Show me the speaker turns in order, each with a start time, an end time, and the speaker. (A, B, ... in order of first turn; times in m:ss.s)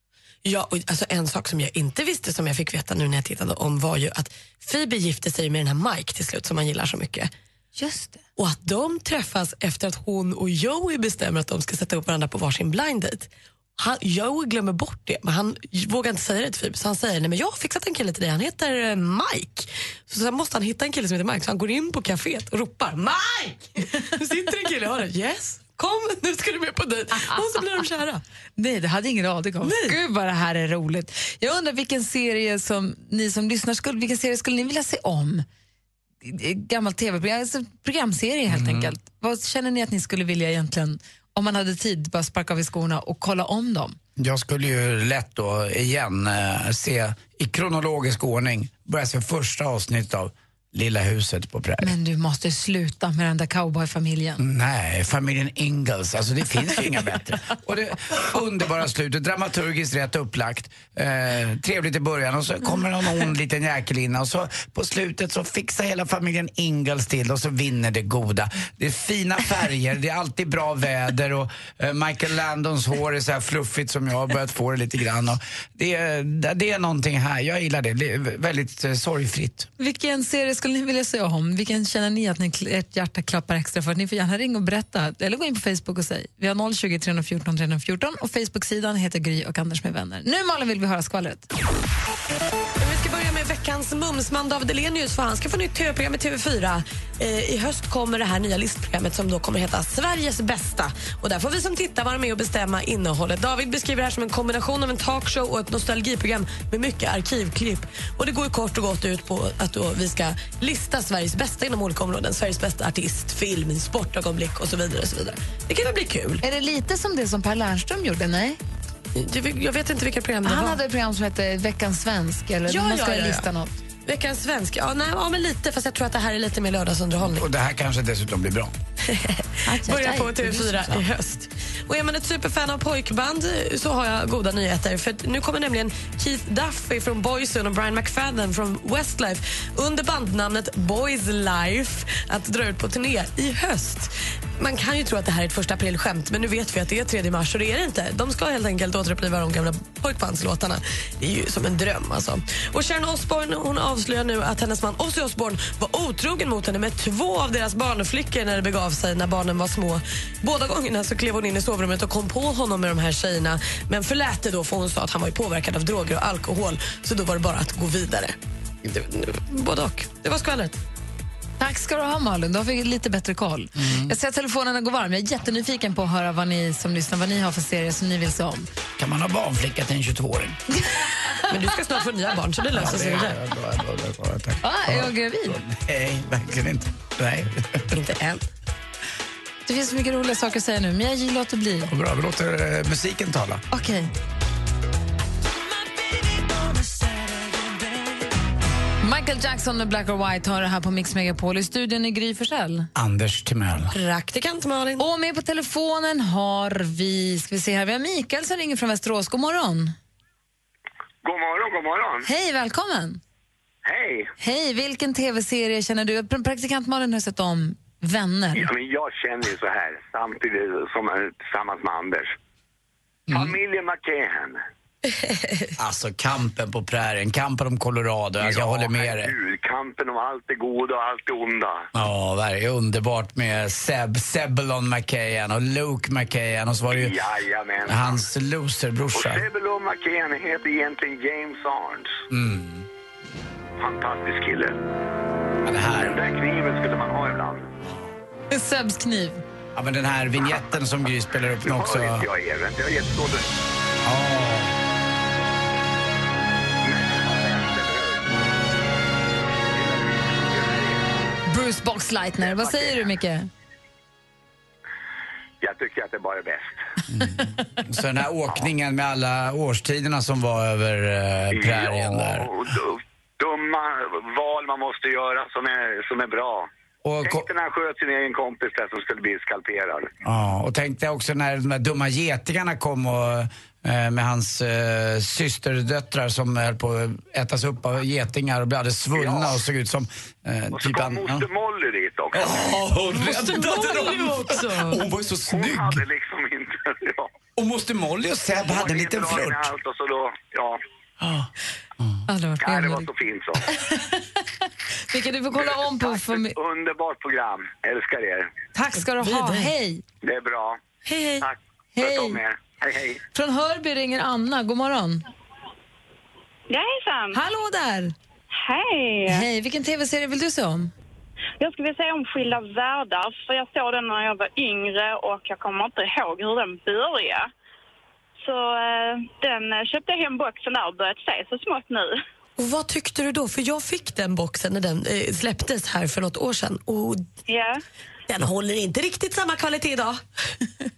0:00.4-0:07.3 A
0:07.7-0:08.2 B
0:08.4-0:28.2 A
0:28.6-0:35.4 B
0:29.6-0:30.0 A
0:36.2-0:44.0 B
0:38.5-0:38.9 C
0:44.2-0:51.9 C
0:51.8-0:54.4 B
0:54.4-1:19.7 C
1:19.8-1:31.4 B
1:32.8-1:56.4 A
1:56.4-1:58.6 B
1:59.1-2:00.8 A
2:00.4-2:03.8 B
2:02.7-2:03.5 A
2:04.0-2:07.5 A
2:07.2-2:08.7 C
2:09.0-2:50.8 A
2:09.6-2:11.0 B
2:51.6-2:58.7 B
2:53.8-2:54.1 C
2:59.0-3:00.6 C
3:00.9-3:01.4 B
3:01.5-3:03.4 A
3:02.7-3:08.0 C
3:04.6-3:05.6 B
3:07.9-3:08.4 A
3:09.6-3:11.9 B
3:11.9-3:13.6 C
3:13.7-3:14.1 B
3:19.0-3:22.9 B
3:22.9-3:23.9 C
3:23.9-3:25.0 A
3:25.0-3:29.9 B
3:31.2-3:32.3 D
3:32.2-3:33.2 B
3:33.8-3:34.3 D
3:34.4-3:38.7 B
3:38.5-3:42.3 D
3:43.3-3:43.6 C
3:43.3-3:44.6 D
3:45.1-3:45.7 A
3:45.8-3:49.3 C
3:48.4-3:51.9 D
3:51.9-3:57.2 C
3:56.9-3:58.2 D
3:57.9-3:59.4 C
3:59.2-4:02.1 D
4:02.3-4:02.9 C
4:03.8-4:04.8 D
4:05.6-4:06.2 C
4:06.0-4:07.7 D
4:08.5-4:09.4 B
4:09.7-4:12.3 C
4:11.6-4:13.5 D
4:14.0-4:14.7 C
4:16.8-4:18.4 D
4:19.7-4:21.0 D
4:21.5-4:23.5 B
4:22.4-4:23.1 D
4:25.6-4:26.8 D
4:27.1-4:32.5 C
4:31.5-4:36.7 D
4:37.0-4:37.5 C
4:37.2-4:40.1 D
4:40.2-4:51.5 C
4:49.2-4:49.6 D
4:50.7-4:52.5 D
4:52.3-4:56.0 C
4:53.1-4:55.0 A
4:55.5-4:57.3 D
4:57.6-4:59.7 C
4:58.6-5:00.8 D
5:01.2-5:01.5 C
5:02.3-5:03.1 B
5:02.6-5:03.7 D
5:03.7-5:04.2 B
5:05.1-5:06.5 B
5:05.5-5:08.5 D
5:08.7-5:10.0 B
5:09.2-5:09.7 A
5:10.2-5:10.8 D
5:11.0-5:11.4 A
5:11.4-5:13.2 D
5:12.0-5:12.4 B
5:13.3-5:15.2 B
5:16.7-5:17.4 E
5:17.3-5:18.1 B
5:18.5-5:19.4 E
5:19.3-5:20.9 B
5:21.6-5:27.5 E
5:28.4-5:32.2 E
5:32.6-5:37.3 A
5:37.5-5:37.8 E
5:38.3-5:40.2 A